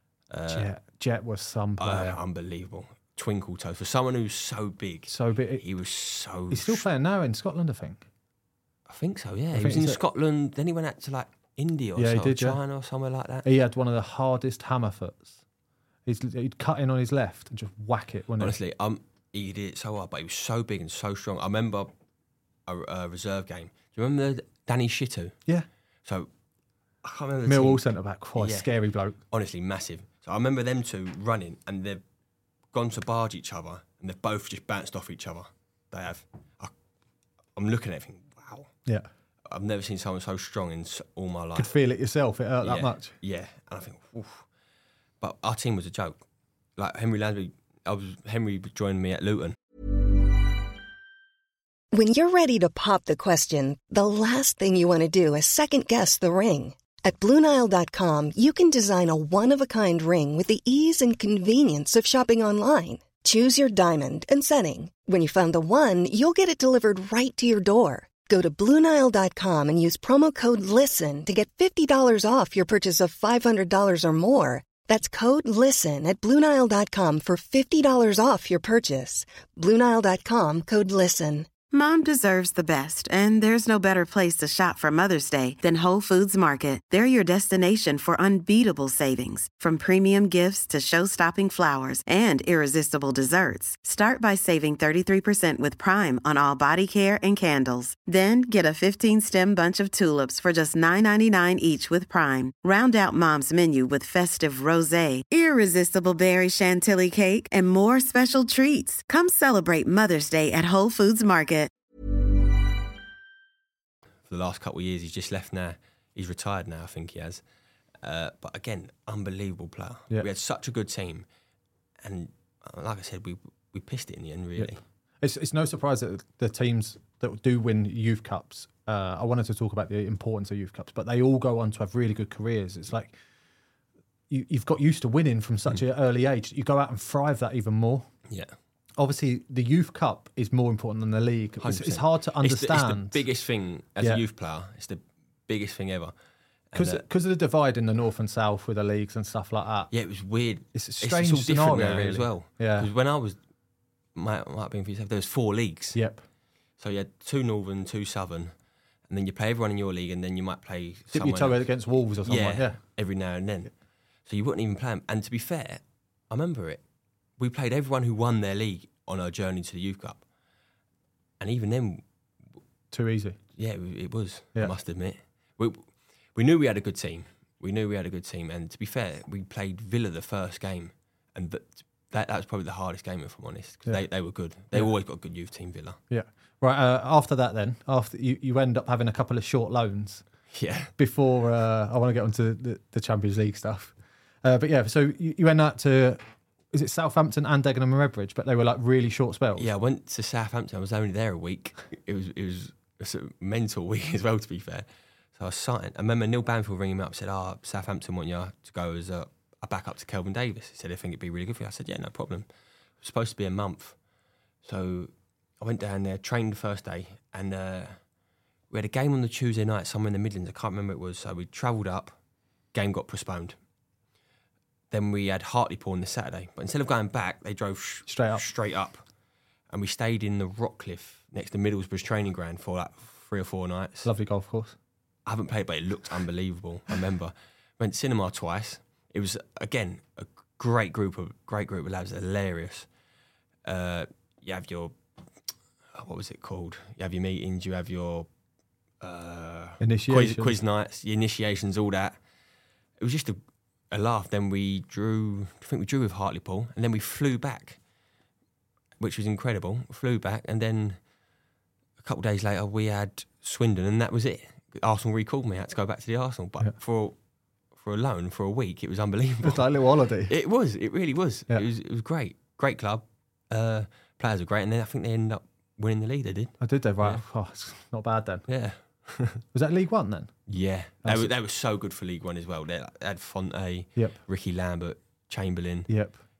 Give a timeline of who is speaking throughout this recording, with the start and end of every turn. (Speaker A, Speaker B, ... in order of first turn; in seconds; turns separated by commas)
Speaker A: 0.3-0.7, Speaker B: 0.5-2.2, Speaker A: 1.8-6.8, Speaker B: 5.1-5.6, Speaker B: 6.5-8.0, Speaker A: 8.9-13.4, Speaker B: 9.5-10.0, Speaker B: 12.0-12.6, Speaker B: 13.4-15.4, Speaker B: 16.1-18.5, Speaker A: 18.4-21.9, Speaker A: 22.7-25.4, Speaker A: 27.0-27.8, Speaker B: 27.4-29.2, Speaker A: 28.4-28.7, Speaker A: 29.3-32.0, Speaker A: 32.7-36.7, Speaker A: 37.5-38.7, Speaker A: 39.5-41.7, Speaker B: 41.5-43.1, Speaker A: 42.6-44.4, Speaker A: 45.2-46.2, Speaker A: 46.8-49.5, Speaker C: 51.9-81.6, Speaker D: 81.7-111.7, Speaker A: 114.3-117.4, Speaker A: 118.0-121.2, Speaker A: 122.0-124.8, Speaker B: 124.6-133.2, Speaker B: 134.3-138.1, Speaker B: 139.0-143.2, Speaker A: 141.6-146.1, Speaker A: 146.7-147.0, Speaker B: 146.7-149.9, Speaker A: 149.9-153.4, Speaker B: 150.7-152.9, Speaker A: 154.1-156.0, Speaker B: 155.9-156.2, Speaker A: 156.8-158.5, Speaker A: 159.1-161.7, Speaker B: 161.1-162.8, Speaker A: 162.2-163.7, Speaker A: 164.3-166.8, Speaker A: 167.4-170.2, Speaker A: 171.4-172.0, Speaker B: 172.9-173.4, Speaker A: 173.6-175.8, Speaker A: 176.3-186.0, Speaker B: 186.1-190.2, Speaker A: 190.5-190.9, Speaker B: 191.0-196.2, Speaker B: 196.7-199.7, Speaker A: 199.6-204.8, Speaker A: 205.4-212.4, Speaker A: 213.0-213.9, Speaker A: 214.6-217.9, Speaker A: 218.7-222.2, Speaker A: 222.7-223.6, Speaker A: 224.9-229.0, Speaker B: 228.1-228.4, Speaker A: 229.7-234.1, Speaker B: 234.0-234.8, Speaker A: 235.2-242.9, Speaker A: 243.6-244.9, Speaker A: 245.9-248.3, Speaker A: 249.0-252.2, Speaker B: 249.8-250.6, Speaker A: 253.0-253.4, Speaker A: 253.9-257.8, Speaker A: 259.0-261.0, Speaker A: 262.0-267.1, Speaker A: 267.8-269.7, Speaker B: 269.4-270.3, Speaker A: 270.3-277.2, Speaker B: 276.6-278.4, Speaker A: 278.5-279.4, Speaker B: 279.5-280.3, Speaker A: 280.5-285.9, Speaker B: 281.0-281.3, Speaker B: 285.9-286.2